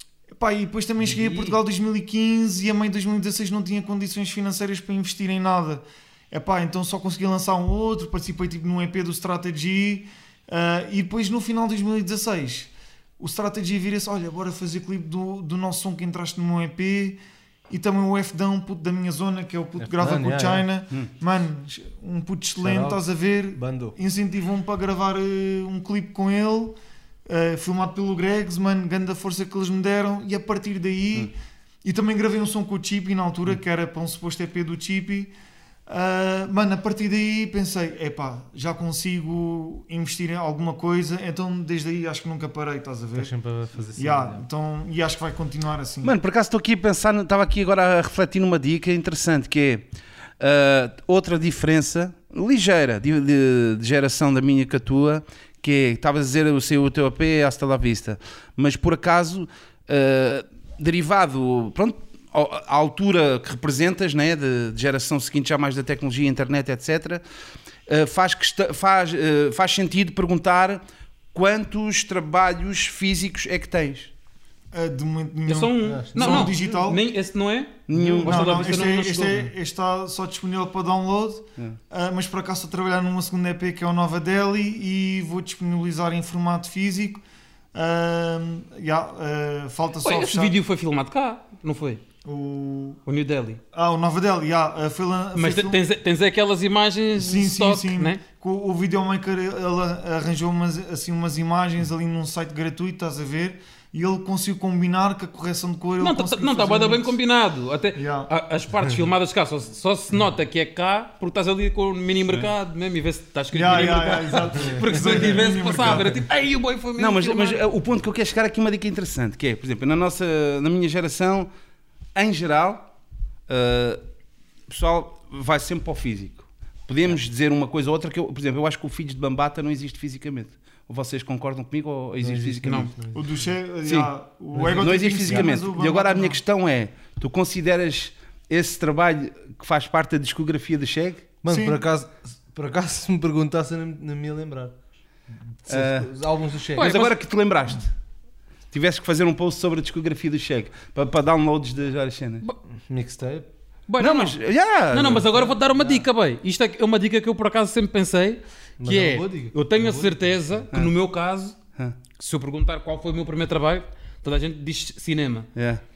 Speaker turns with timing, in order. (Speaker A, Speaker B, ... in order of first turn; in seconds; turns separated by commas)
Speaker A: 0.3-17.2, Speaker B: 1.0-1.6, Speaker A: 17.7-35.3, Speaker C: 19.8-20.7, Speaker C: 22.6-23.0, Speaker C: 23.5-23.9, Speaker A: 35.9-43.3, Speaker C: 43.1-44.4, Speaker A: 44.0-46.1, Speaker D: 46.0-49.9, Speaker D: 50.4-67.2, Speaker D: 67.9-70.8, Speaker D: 71.3-74.1, Speaker A: 74.7-77.0, Speaker B: 75.5-79.5, Speaker C: 75.8-76.5, Speaker D: 77.9-78.8, Speaker A: 78.2-87.2, Speaker A: 87.7-90.5, Speaker B: 90.0-92.0, Speaker A: 92.2-93.0, Speaker B: 93.0-93.6, Speaker A: 93.7-95.8, Speaker B: 95.3-98.2, Speaker A: 97.2-107.1, Speaker B: 106.0-117.6, Speaker A: 107.9-108.3, Speaker A: 113.5-116.2, Speaker C: 114.7-115.2, Speaker D: 117.0-121.5, Speaker D: 122.1-122.9, Speaker D: 123.5-124.0, Speaker D: 124.7-132.9, Speaker C: 132.2-133.3, Speaker B: 132.6-132.9, Speaker A: 133.1-136.4, Speaker D: 133.8-141.3, Speaker C: 134.6-135.4, Speaker C: 141.4-144.8, Speaker A: 141.5-141.8, Speaker C: 145.6-147.0, Speaker D: 145.7-146.1, Speaker D: 146.7-147.9, Speaker B: 146.7-147.2, Speaker D: 148.7-152.4, Speaker C: 152.7-153.5, Speaker B: 153.9-154.4, Speaker D: 154.0-155.3, Speaker B: 154.9-161.6, Speaker C: 155.3-156.1, Speaker C: 158.8-160.2, Speaker B: 162.2-165.5, Speaker D: 165.5-165.8